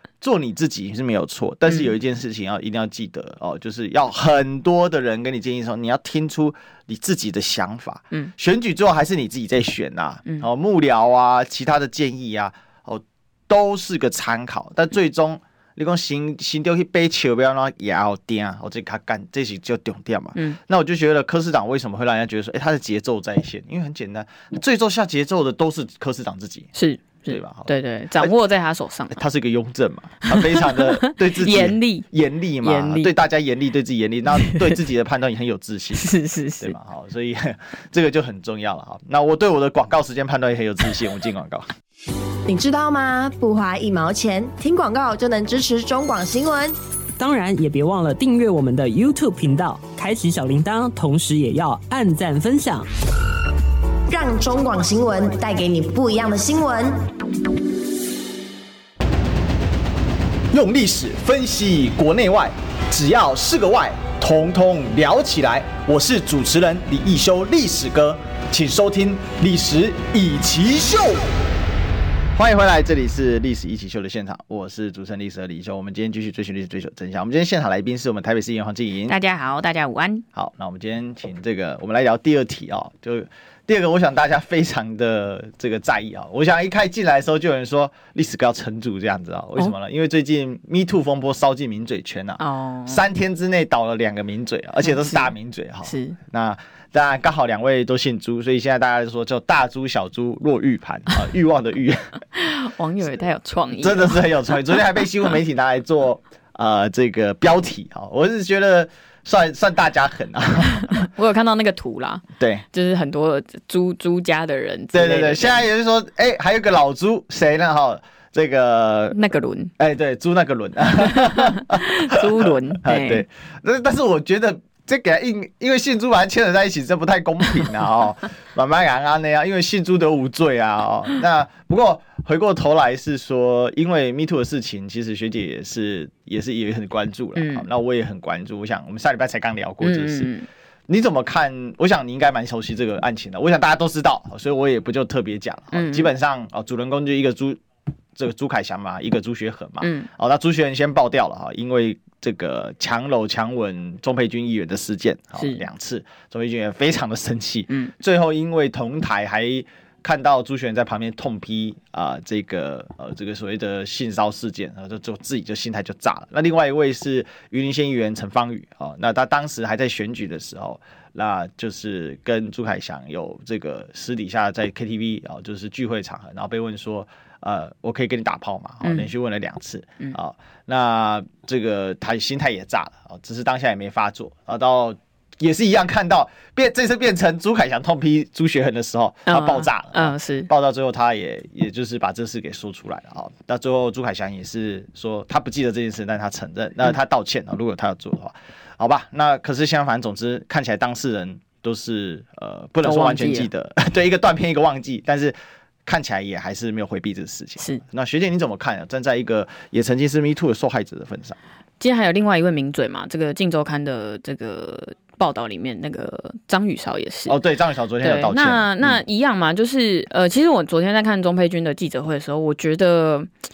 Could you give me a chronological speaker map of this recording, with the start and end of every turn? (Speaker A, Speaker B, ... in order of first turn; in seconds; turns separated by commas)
Speaker A: 0.2-26.7, Speaker B: 26.7-29.2, Speaker A: 27.3-28.3, Speaker A: 29.1-41.7, Speaker B: 30.2-32.1, Speaker B: 32.6-33.1, Speaker B: 34.4-34.7, Speaker B: 36.0-36.8, Speaker C: 42.5-46.7, Speaker D: 47.2-52.9, Speaker C: 54.1-57.0, Speaker A: 60.5-71.2, Speaker A: 72.3-79.2, Speaker B: 79.1-80.2, Speaker A: 80.3-102.1, Speaker B: 92.4-93.0, Speaker B: 95.0-95.3, Speaker B: 95.8-96.2, Speaker B: 102.3-104.2, Speaker A: 103.8-111.1, Speaker B: 110.8-115.6, Speaker A: 112.4-112.6, Speaker A: 114.9-119.2, Speaker B: 119.1-119.7, Speaker A: 119.8-140.3, Speaker B: 121.0-123.2, Speaker B: 137.3-137.7, Speaker B: 139.8-140.5, Speaker A: 140.9-147.6, Speaker B: 145.7-146.1, Speaker A: 148.1-211.4, Speaker B: 149.8-150.1, Speaker B: 155.4-155.6, Speaker B: 178.8-179.1, Speaker B: 189.3-190.5, Speaker B: 202.8-203.5, Speaker B: 211.8-217.4, Speaker A: 217.3-219.0, Speaker B: 218.0-223.3